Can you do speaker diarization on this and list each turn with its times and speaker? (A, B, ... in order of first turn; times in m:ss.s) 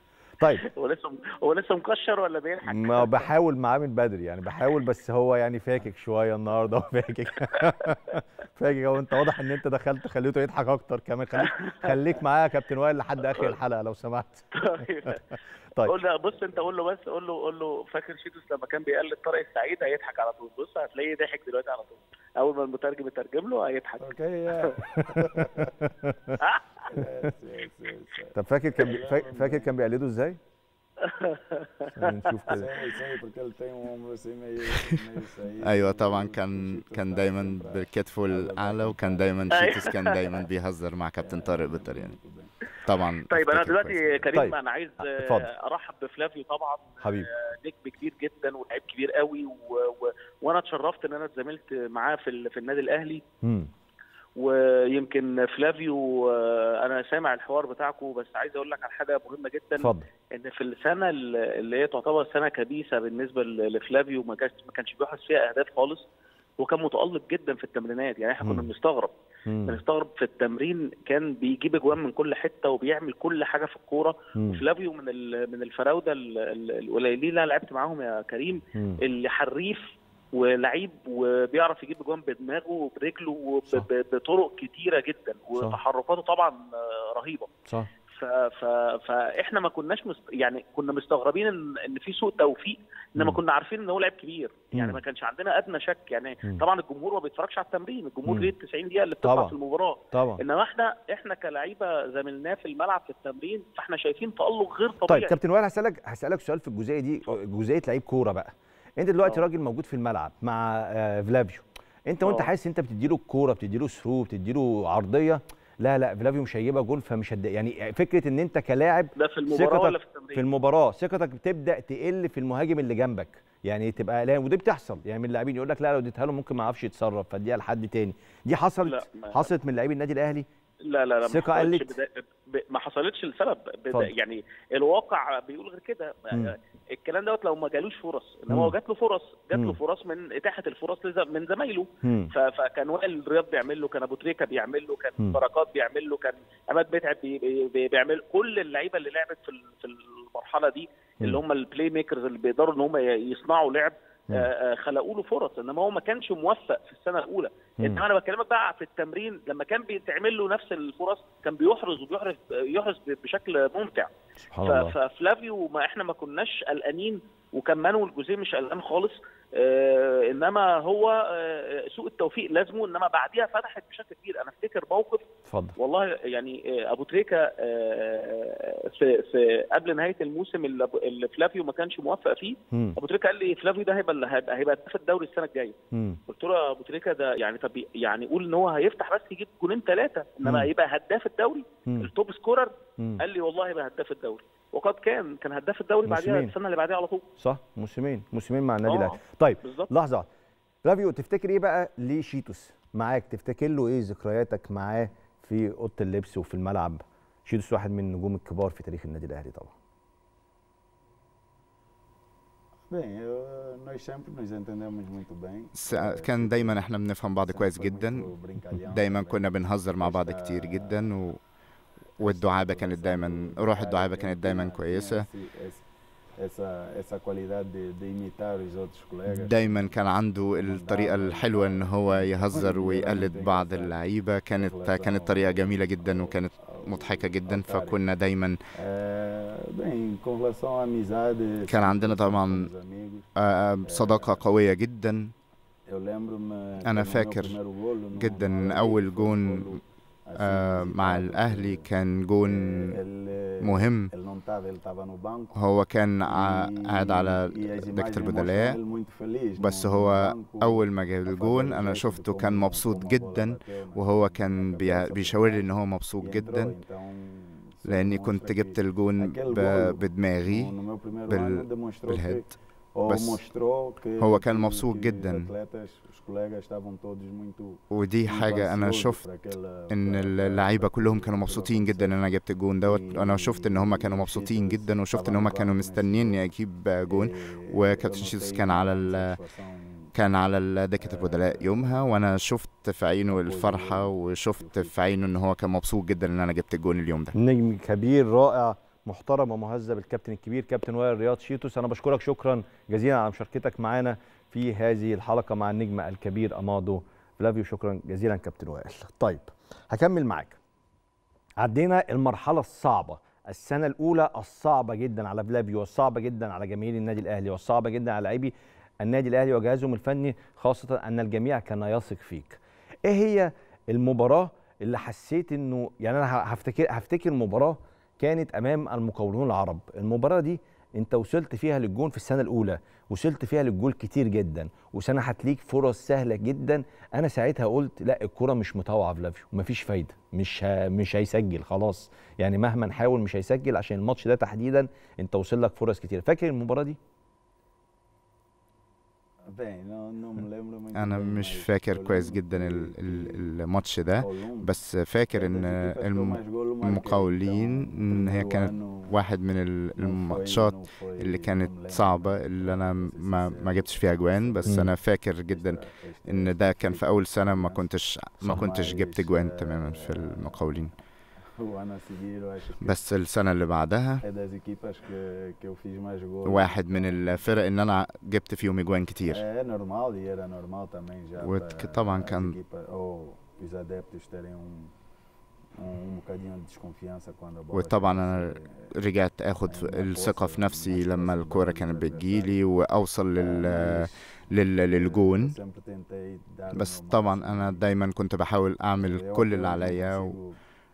0:00.4-0:00.7 A
0:00.6-0:03.3 B
0:02.6-0:15.2 A
0:14.6-0:15.2 B
0:15.8-0:24.8 B
0:24.0-0:25.8 C
0:24.9-0:26.4 A
0:26.4-0:26.6 B
0:26.8-0:29.7 C
0:28.4-0:30.4 A
0:31.0-0:31.9 B
0:32.0-0:32.7 A
0:32.4-0:40.0 C
0:35.6-0:42.2 D
0:39.5-0:40.3 B
0:41.2-0:42.5 C
0:42.8-0:44.3 D
0:43.3-0:53.2 B
0:44.3-0:45.5 A
0:47.0-0:47.3 A
0:53.4-0:53.7 A
0:54.4-1:06.0 B
0:59.8-1:00.1 A
1:06.6-1:09.1 B
1:08.4-1:08.7 A
1:09.5-1:09.8 A
1:09.7-1:27.5 B
1:14.4-1:14.6 A
1:18.8-1:19.0 A
1:28.1-1:45.4 B
1:34.7-1:35.0 A
1:38.3-1:38.5 A
1:39.2-1:39.5 A
1:40.1-1:40.4 A
1:45.1-2:10.5 A
1:52.2-1:52.5 B
1:59.2-2:00.4 B
2:08.8-2:09.4 B
2:10.8-2:44.1 B
2:11.2-2:11.9 A
2:18.5-2:18.7 A
2:22.0-2:22.3 A
2:44.5-2:45.0 A
2:44.7-2:55.2 B
2:55.5-2:55.8 A
2:55.8-3:05.8 B
3:02.7-3:03.0 A
3:05.9-3:06.2 A
3:06.3-3:17.3 B
3:10.4-3:10.7 A
3:16.0-3:16.5 A
3:17.4-3:20.3 A
3:18.9-3:19.9 B
3:20.8-3:29.7 A
3:32.9-3:36.8 C
3:35.8-3:38.3 D
3:37.4-3:39.4 C
3:38.9-3:41.4 D
3:40.0-3:41.0 C
3:42.2-3:45.3 D
3:42.2-3:45.8 C
3:46.4-3:49.9 C
3:49.3-3:58.6 D
3:50.6-3:53.9 C
3:54.5-3:58.0 C
3:58.7-4:03.3 C
4:01.7-4:02.7 D
4:03.4-4:05.3 D
4:03.9-4:04.4 C
4:05.9-4:11.8 C
4:06.8-4:07.6 D
4:08.1-4:09.8 D
4:10.4-4:13.0 D
4:12.5-4:15.6 C
4:13.6-4:14.1 D
4:15.6-4:18.8 D
4:16.3-4:25.6 C
4:19.6-4:26.7 D
4:26.2-4:42.2 C
4:27.8-4:30.7 D
4:31.3-4:32.4 D
4:33.1-4:33.4 D
4:34.2-4:35.5 D
4:37.9-4:39.2 D
4:39.9-4:49.4 D
4:42.8-4:46.4 C
4:47.1-4:50.1 C
4:50.1-4:57.4 D
4:51.0-4:51.9 C
4:53.3-4:54.9 C
4:57.3-5:10.6 A
5:11.6-5:47.0 A
5:49.5-5:53.5 C
5:50.9-6:10.9 D
5:54.2-5:54.7 C
5:55.3-5:59.1 C
6:00.0-6:04.9 C
6:05.5-6:07.8 C
6:08.4-6:11.0 C
6:11.5-6:13.0 C
6:12.8-6:14.2 D
6:14.2-6:16.8 C
6:16.4-6:19.4 D
6:19.3-6:24.9 C
6:21.4-6:22.6 D
6:25.8-6:28.9 C
6:27.7-6:35.6 D
6:29.7-6:32.6 C
6:33.4-6:37.8 C
6:36.7-6:40.4 D
6:39.0-6:40.6 C